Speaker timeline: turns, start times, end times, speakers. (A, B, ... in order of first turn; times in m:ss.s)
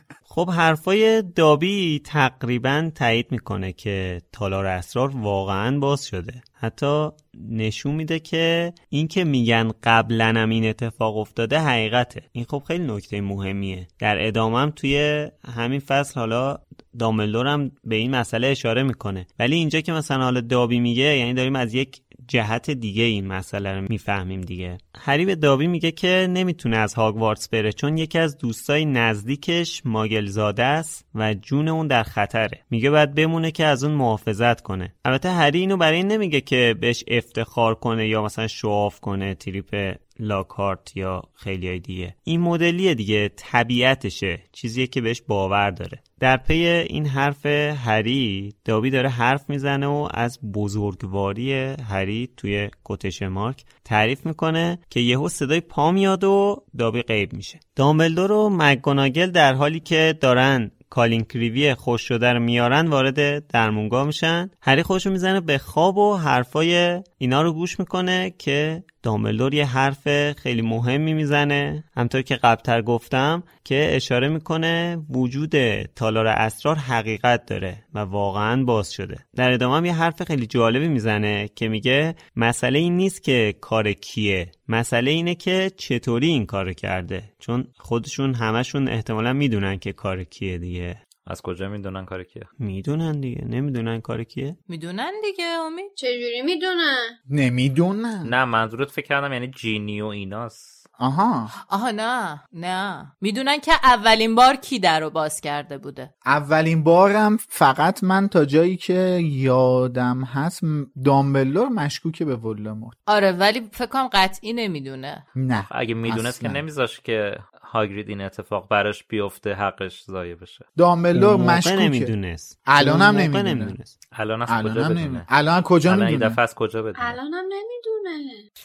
0:00.3-1:31.0 A
1:31.3-1:32.5 B
1:32.6-1:34.6 A
1:34.7-1:35.9 C
1:36.0-1:37.2 D
1:37.3-1:38.3 E
1:38.2-1:40.8 B
1:41.0-1:41.5 E
1:41.7-1:46.1 C
1:46.2-1:53.0 E
1:53.1-1:55.2 C
1:55.4-1:56.6 E
1:55.7-2:00.7 B
2:00.8-2:02.1 E
2:01.2-2:03.9 A
2:02.7-2:03.8 E
2:04.1-2:05.3 B
2:04.5-2:06.4 E
2:05.8-2:07.2 B
2:07.0-2:08.4 D